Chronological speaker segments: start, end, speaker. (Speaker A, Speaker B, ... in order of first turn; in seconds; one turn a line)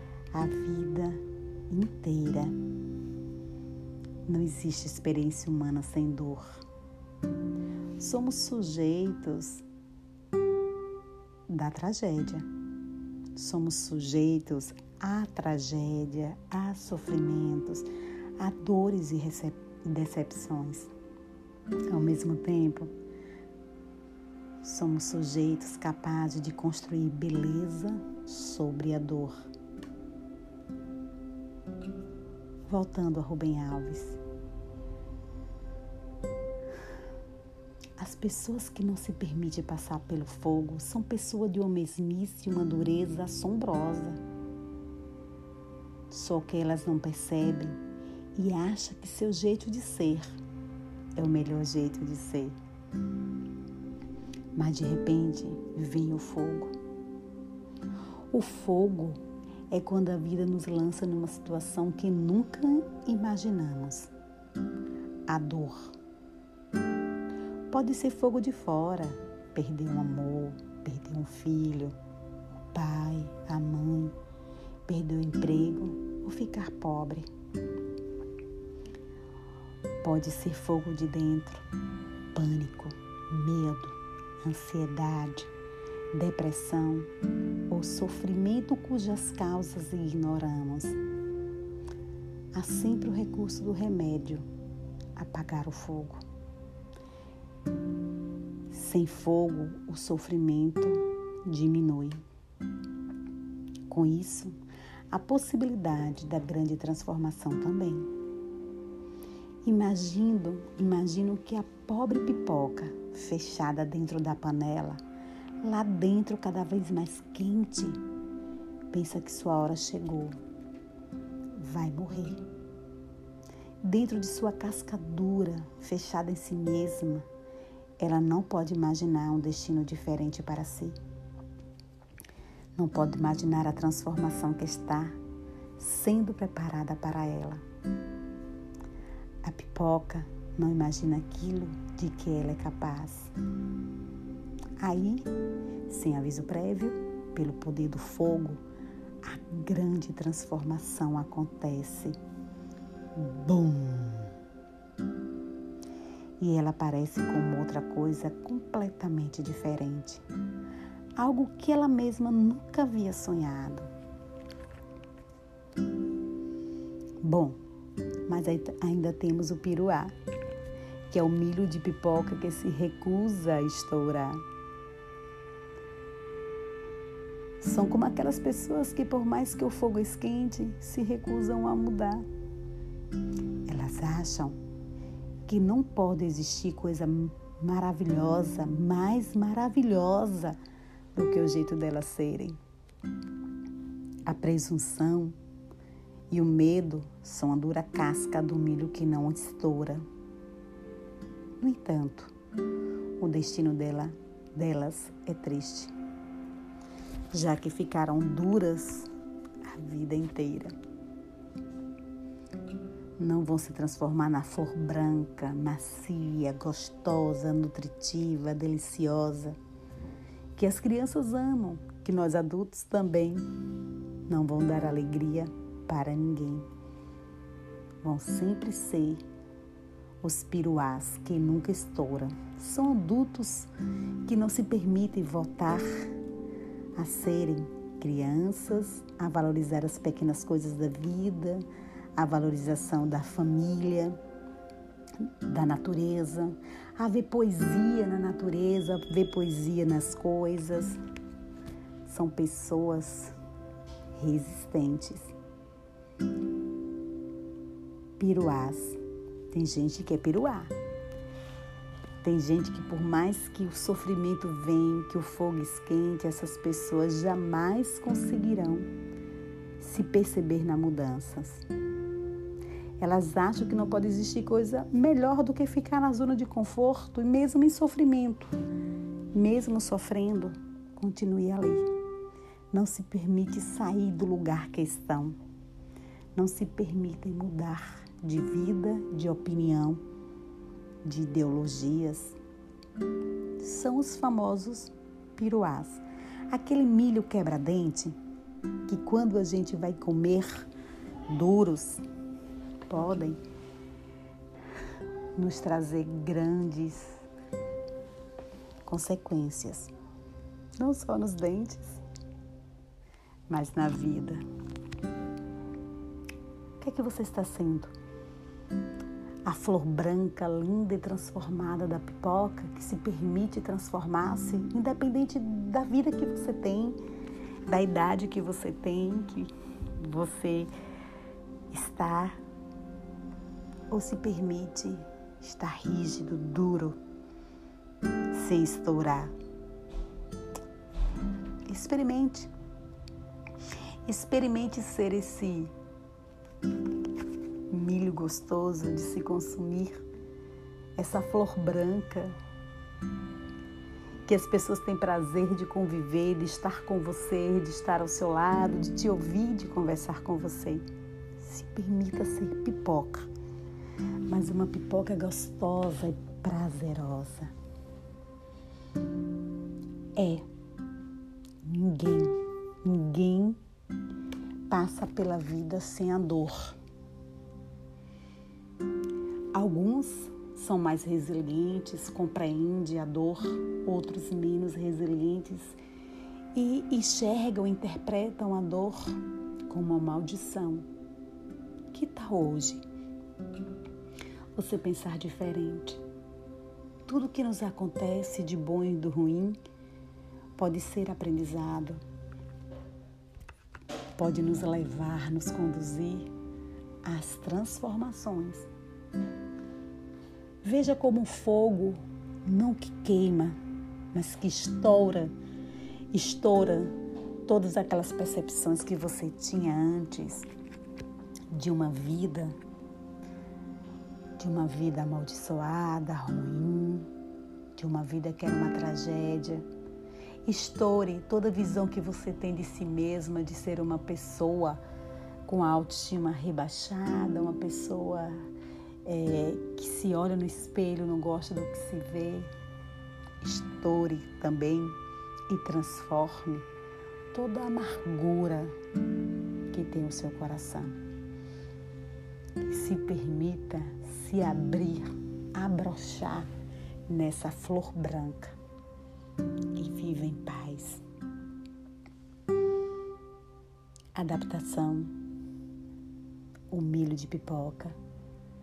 Speaker A: 0.3-2.6
Speaker A: 4.2-6.6
Speaker A: 8.0-9.7
Speaker A: 11.5-12.5
Speaker A: 13.3-20.9
Speaker A: 21.9-22.9
Speaker A: 24.6-29.5
Speaker A: 32.7-34.2
Speaker A: 38.0-44.2
Speaker A: 46.1-47.8
Speaker A: 48.3-50.3
Speaker A: 51.1-52.6
Speaker A: 54.5-56.7
Speaker A: 58.3-64.1
Speaker A: 65.3-65.9
Speaker A: 67.7-72.0
Speaker A: 72.7-74.2
Speaker A: 74.9-77.3
Speaker A: 80.0-81.7
Speaker A: 82.3-85.5
Speaker A: 86.1-87.1
Speaker A: 87.7-91.0
Speaker A: 92.5-94.5
Speaker A: 95.2-96.2
Speaker A: 98.7-102.2
Speaker A: 103.9-104.6
Speaker A: 105.1-108.1
Speaker A: 109.6-115.0
Speaker A: 115.6-118.0
Speaker A: 118.9-120.4
Speaker A: 121.5-122.4
Speaker A: 123.8-127.3
Speaker A: 128.0-131.0
Speaker A: 132.8-135.2
Speaker A: 135.8-137.6
Speaker A: 139.4-143.3
Speaker A: 144.8-145.3
Speaker A: 145.9-148.6
Speaker A: 149.2-152.2
Speaker A: 153.2-154.3
Speaker A: 156.4-160.2
Speaker A: 161.2-163.9
Speaker A: 167.2-167.6
Speaker A: 168.3-170.1
Speaker A: 171.1-174.4
Speaker A: 177.6-182.2
Speaker A: 183.7-184.6
Speaker A: 185.5-190.6
Speaker A: 191.1-192.6
Speaker A: 194.3-195.3
Speaker A: 196.3-200.0
Speaker A: 201.6-202.3
Speaker A: 203.2-205.9
Speaker A: 207.3-209.1
Speaker A: 209.7-210.7
Speaker A: 213.2-219.6
Speaker A: 220.6-223.5
Speaker A: 224.3-226.7
Speaker A: 228.0-229.2
Speaker A: 230.2-233.7
Speaker A: 234.2-236.1
Speaker A: 237.0-244.2
Speaker A: 245.4-251.0
Speaker A: 252.0-253.3
Speaker A: 254.2-255.3
Speaker A: 258.2-259.0
Speaker A: 259.5-260.7
Speaker A: 262.2-268.9
Speaker A: 269.8-271.6
Speaker A: 273.0-278.5
Speaker A: 279.3-281.9
Speaker A: 282.7-285.4
Speaker A: 286.4-290.0
Speaker A: 291.0-292.4
Speaker A: 293.6-298.1
Speaker A: 298.9-300.7
Speaker A: 301.3-302.0
Speaker A: 302.9-303.4
Speaker A: 305.4-307.2
Speaker A: 308.9-309.9
Speaker A: 310.8-312.0
Speaker A: 313.5-314.4
Speaker A: 316.8-317.9
Speaker A: 319.4-327.0
Speaker A: 327.6-330.7
Speaker A: 331.7-332.4
Speaker A: 333.9-337.0
Speaker A: 338.3-339.4
Speaker A: 341.7-342.5
Speaker A: 344.1-345.7
Speaker A: 347.7-350.0
Speaker A: 351.0-352.4
Speaker A: 354.2-360.9
Speaker A: 361.4-363.3
Speaker A: 364.3-367.5
Speaker A: 370.1-370.5
Speaker A: 371.6-373.6
Speaker A: 374.7-376.8
Speaker A: 379.5-385.8
Speaker A: 386.5-390.9
Speaker A: 391.9-392.8
Speaker A: 394.6-396.0
Speaker A: 397.1-399.6
Speaker A: 400.6-402.0
Speaker A: 404.2-406.3
Speaker A: 407.0-408.7
Speaker A: 410.6-413.6
Speaker A: 414.1-415.3
Speaker A: 416.1-416.9
Speaker A: 417.4-420.5
Speaker A: 421.5-422.6
Speaker A: 424.4-427.1
Speaker A: 427.8-429.7
Speaker A: 430.4-434.8
Speaker A: 435.4-438.5
Speaker A: 439.0-442.5
Speaker A: 443.4-445.0
Speaker A: 445.5-446.6
Speaker A: 447.3-448.8
Speaker A: 449.7-451.0
Speaker A: 452.6-456.5
Speaker A: 457.1-458.6
Speaker A: 459.8-461.0
Speaker A: 464.1-465.1
Speaker A: 466.7-468.0